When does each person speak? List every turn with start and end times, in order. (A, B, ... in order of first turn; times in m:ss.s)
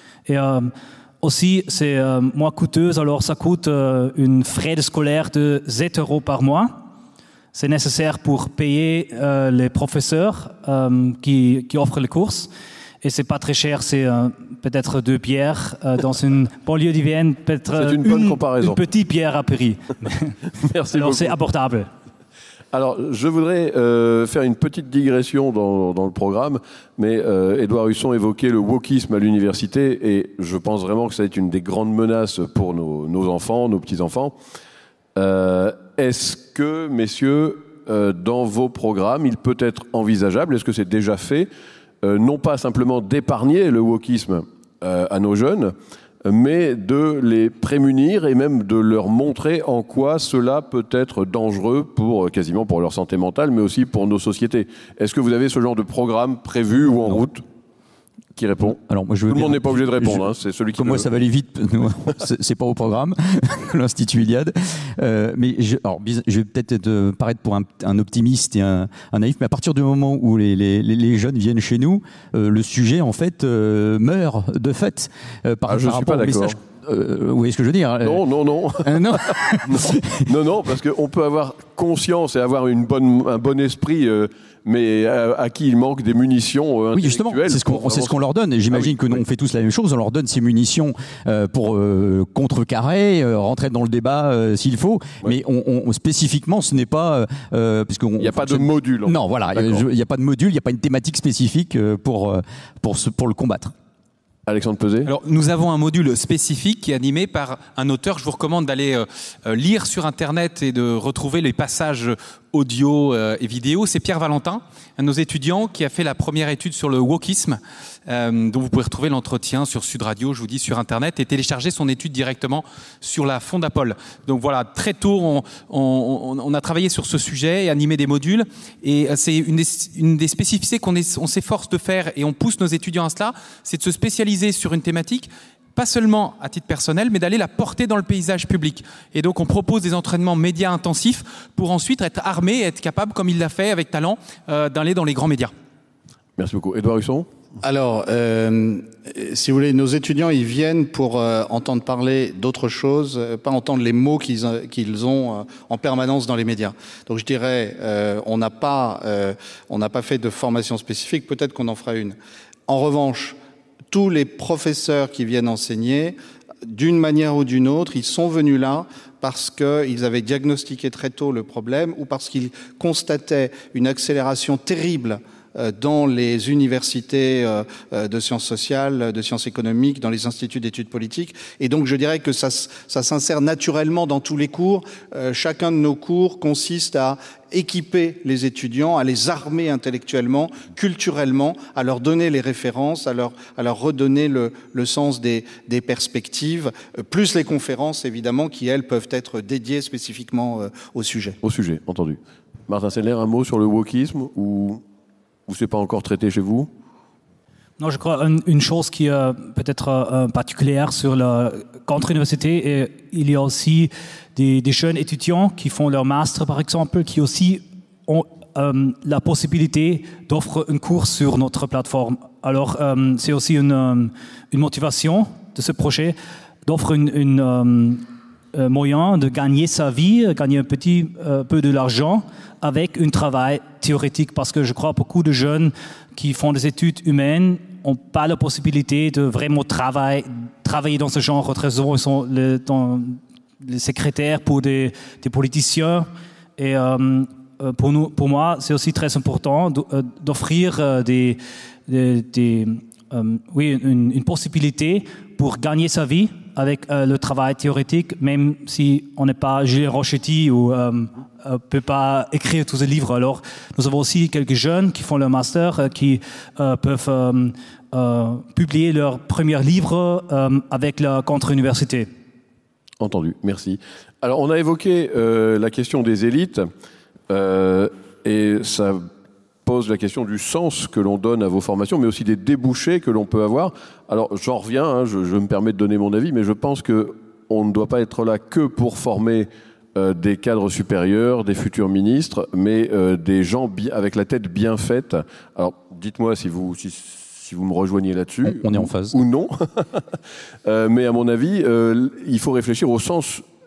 0:00.2-0:06.8 A
0:07.5-0:12.5 A
0:13.0-0:20.4 A
0:17.7-0:18.8 B
0:20.6-0:21.4 B
0:20.9-0:21.9 A
0:22.7-0:34.4 B
0:35.2-0:41.5 B
0:42.0-0:57.4 B
0:58.4-1:01.1 B
0:58.8-1:00.2 C
1:00.8-1:18.2 C
1:15.7-1:16.6 B
1:18.0-1:28.2 B
1:18.8-1:20.2 C
1:26.9-1:43.7 C
1:28.7-1:29.2 B
1:38.2-1:39.8 B
1:44.5-1:45.1 B
1:45.1-2:25.5 D
2:26.4-2:27.3 B
2:27.6-2:42.2 E
2:42.7-2:43.4 E
2:43.9-3:21.4 E
3:21.4-3:24.8 B
3:25.5-3:26.7 B
3:27.8-3:48.0 A
3:48.5-4:32.1 A
4:33.0-4:36.7 B
4:37.3-4:39.1 B
4:39.6-5:00.1 B
4:58.4-4:59.2 C
5:00.6-5:03.4 B